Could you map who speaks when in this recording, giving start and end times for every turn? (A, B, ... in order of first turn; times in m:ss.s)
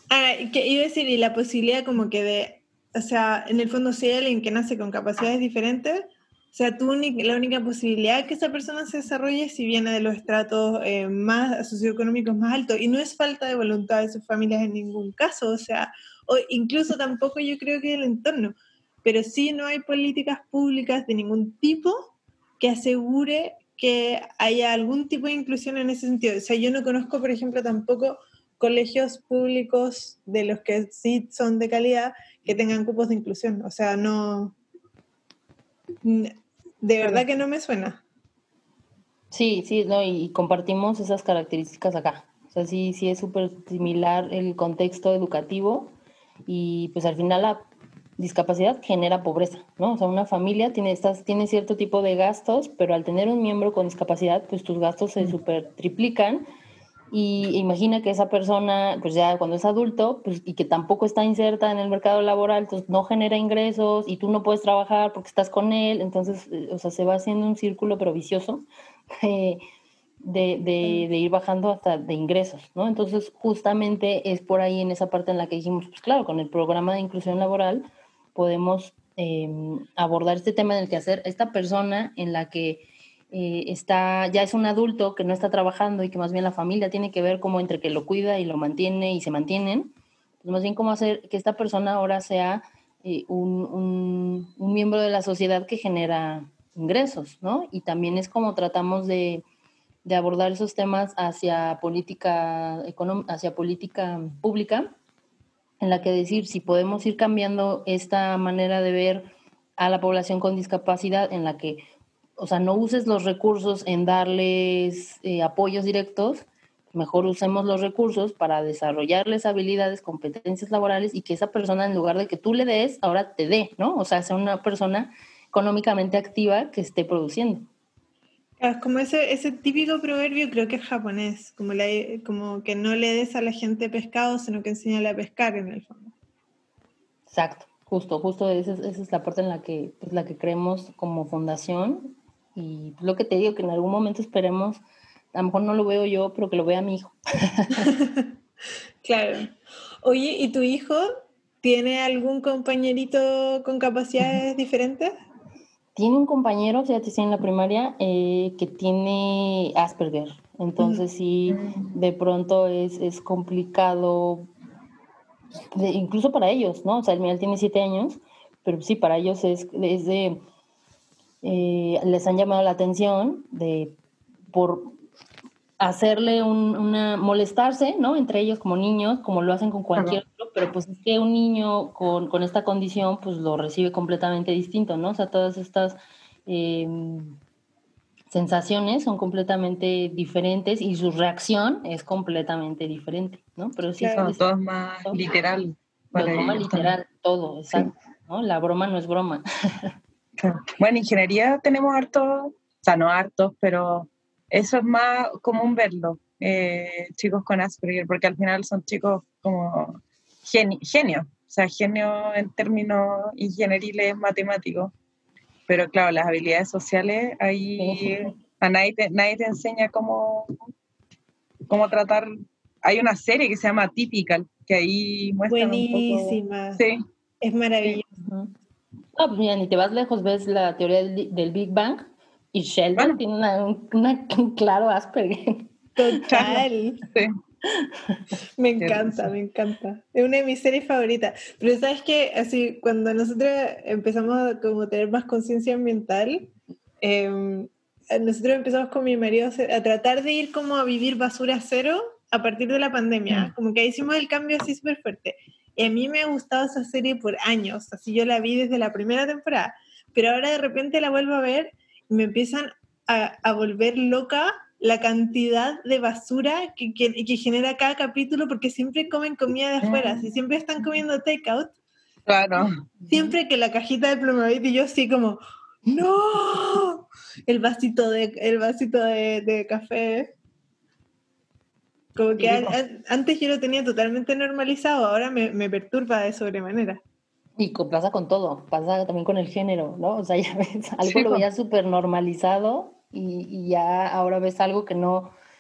0:00.1-0:34.6 A
0:36.0-0:38.0 A
0:39.3-0:45.9 B
0:46.5-0:47.7 B
0:48.2-0:56.4 B
0:57.1-1:08.7 B
1:09.2-1:09.6 B
1:10.2-1:39.4 B
1:40.0-1:44.9 B
1:45.8-1:51.8 B
1:52.4-2:07.7 B
2:08.6-2:16.1 A
2:17.3-2:24.8 B
2:25.3-2:27.9 B
2:27.9-2:28.3 A
2:29.0-2:31.1 A
2:31.6-2:35.1 A
2:36.0-2:44.5 B
2:40.8-2:41.0 A
2:41.5-2:42.0 C
2:45.7-2:50.4 B
2:51.4-2:54.0 B
2:54.5-2:54.9 B
2:55.8-3:07.4 B
3:08.3-3:14.4 B
3:14.0-3:14.3 A
3:14.2-3:16.9 C
3:16.2-3:19.9 B
3:20.4-3:34.9 C
3:35.7-3:40.5 C
3:37.8-3:38.3 B
3:41.7-3:42.3 C
3:42.8-3:47.0 C
3:45.5-3:46.8 A
3:47.4-3:48.0 A
3:47.8-3:48.5 B
3:49.2-3:56.6 B
3:56.0-3:57.0 A
3:56.3-3:57.3 C
3:57.7-3:58.3 B
3:58.6-4:06.5 A
3:58.8-3:59.3 C
4:07.0-4:31.7 A
4:29.8-4:30.3 C
4:32.3-4:32.7 C
4:33.1-4:40.3 A
4:42.2-4:47.0 A
4:42.4-4:42.7 C
4:47.6-4:55.3 B
4:51.0-4:51.4 C